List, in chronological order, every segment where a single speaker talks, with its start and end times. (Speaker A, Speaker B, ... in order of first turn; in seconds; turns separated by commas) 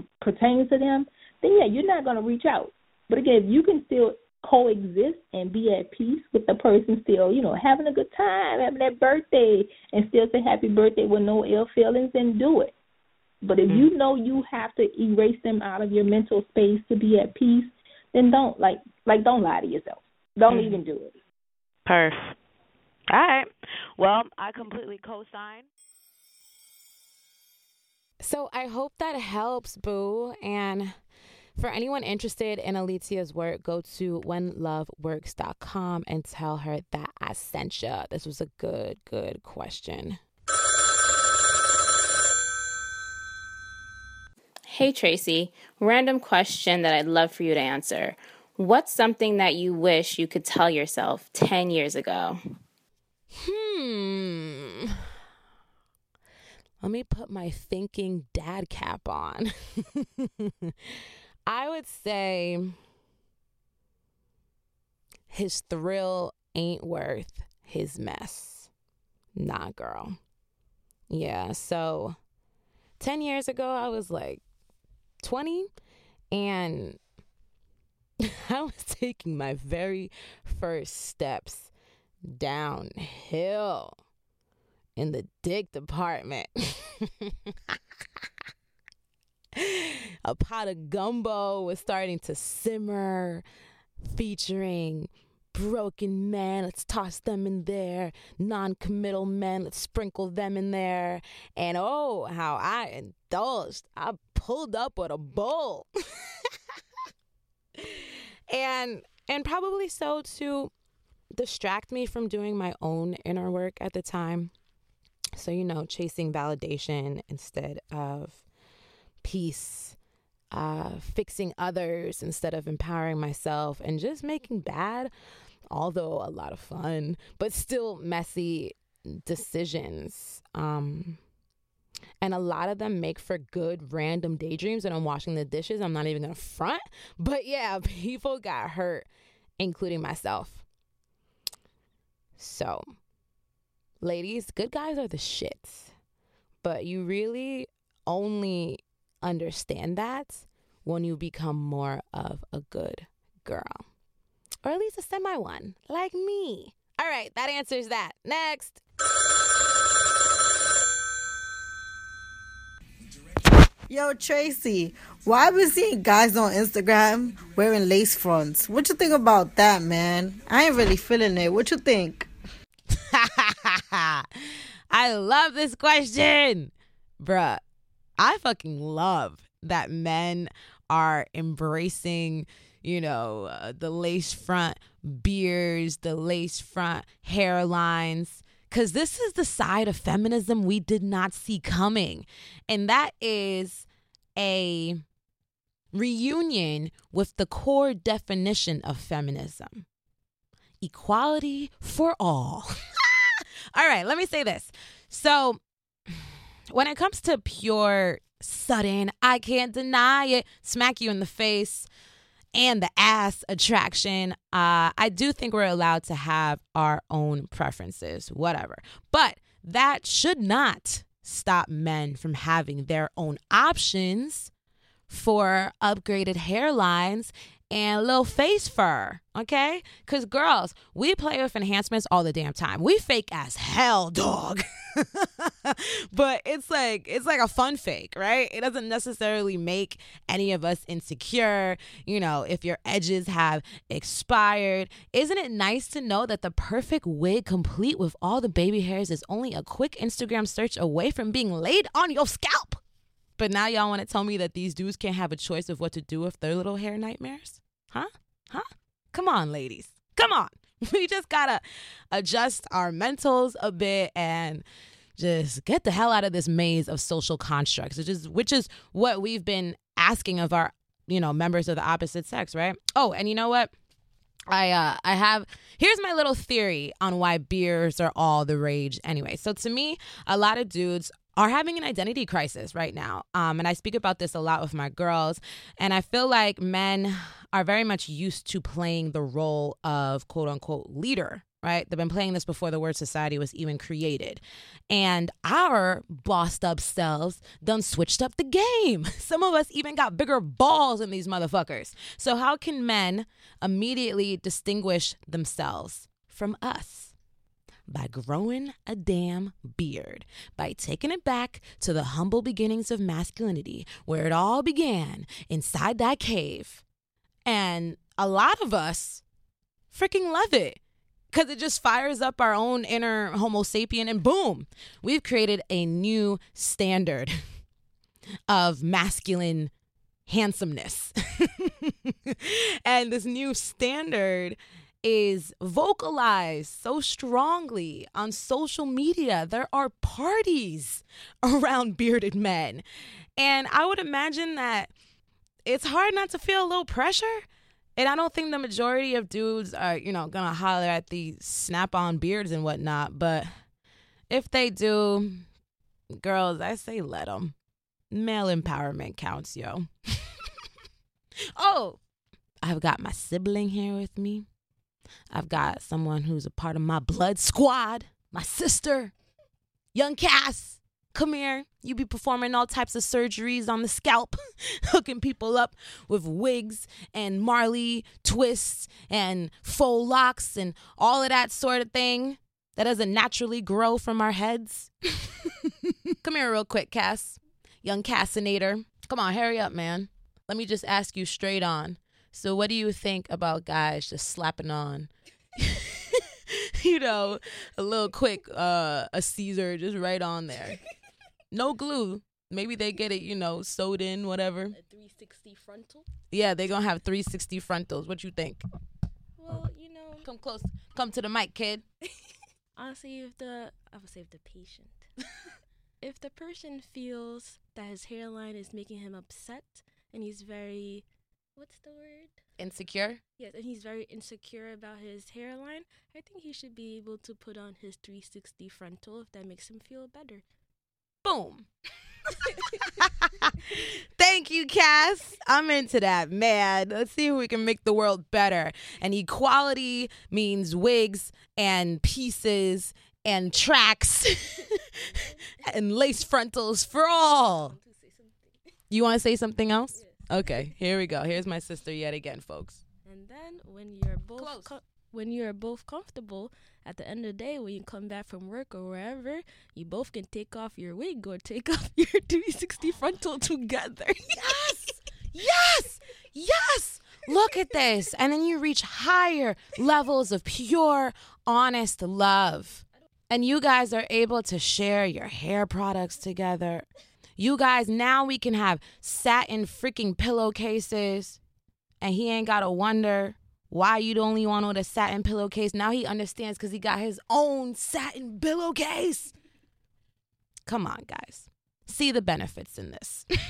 Speaker A: 0.2-12.7, Speaker A: 13.4-21.1, Speaker B: 20.5-20.8, Speaker B: 21.9-22.4, Speaker B: 23.1-25.7, Speaker C: 28.2-30.9, Speaker C: 31.6-40.2, Speaker D: 44.7-52.4, Speaker C: 53.4-54.9, Speaker C: 56.8-60.7, Speaker C: 61.5-62.8, Speaker C: 65.3-68.7, Speaker C: 69.4-70.2, Speaker C: 71.1-72.2, Speaker C: 73.0-74.4, Speaker C: 75.2-75.7, Speaker C: 76.3-77.0, Speaker C: 78.2-81.7, Speaker C: 82.3-84.0, Speaker C: 85.0-87.8, Speaker C: 89.5-93.4, Speaker C: 94.0-105.9, Speaker C: 107.8-110.7, Speaker C: 111.3-114.5, Speaker C: 115.4-118.4, Speaker C: 119.2-120.0, Speaker C: 120.5-125.1, Speaker C: 125.7-131.2, Speaker C: 132.2-139.1, Speaker C: 139.6-140.6, Speaker C: 142.4-142.9, Speaker C: 144.0-145.9, Speaker C: 146.6-153.8, Speaker C: 154.6-158.8, Speaker E: 163.9-172.3, Speaker C: 172.9-174.2, Speaker C: 174.9-177.6, Speaker C: 178.2-195.0, Speaker C: 195.9-199.8, Speaker C: 200.8-205.6, Speaker C: 206.7-211.9, Speaker C: 212.5-224.5, Speaker C: 225.1-252.8, Speaker C: 253.4-264.6, Speaker C: 265.2-273.7, Speaker C: 274.5-307.1, Speaker C: 307.9-316.8, Speaker C: 317.4-319.2, Speaker C: 319.9-320.8, Speaker C: 321.3-327.4, Speaker C: 328.5-329.7, Speaker C: 330.3-342.8, Speaker C: 343.4-344.9, Speaker C: 345.6-347.4, Speaker C: 348.0-353.5, Speaker C: 354.3-355.4, Speaker C: 356.2-357.5, Speaker C: 358.1-360.3, Speaker C: 361.6-362.0, Speaker C: 362.6-364.4, Speaker C: 365.3-369.1, Speaker C: 369.9-396.2, Speaker C: 396.8-400.8, Speaker C: 401.5-404.8, Speaker F: 404.7-406.1, Speaker C: 406.3-408.6, Speaker F: 409.4-410.3, Speaker C: 410.2-411.8, Speaker F: 412.8-415.1, Speaker F: 416.0-422.4, Speaker C: 422.6-423.2, Speaker F: 423.4-430.4, Speaker C: 431.2-431.7, Speaker C: 432.8-444.6, Speaker F: 445.1-445.9, Speaker C: 445.6-447.8, Speaker F: 447.6-448.7, Speaker C: 448.9-452.8, Speaker F: 449.9-450.7, Speaker F: 453.0-464.9, Speaker C: 454.4-454.7, Speaker C: 464.3-476.9, Speaker C: 477.4-481.4, Speaker C: 482.0-489.3, Speaker C: 490.7-493.2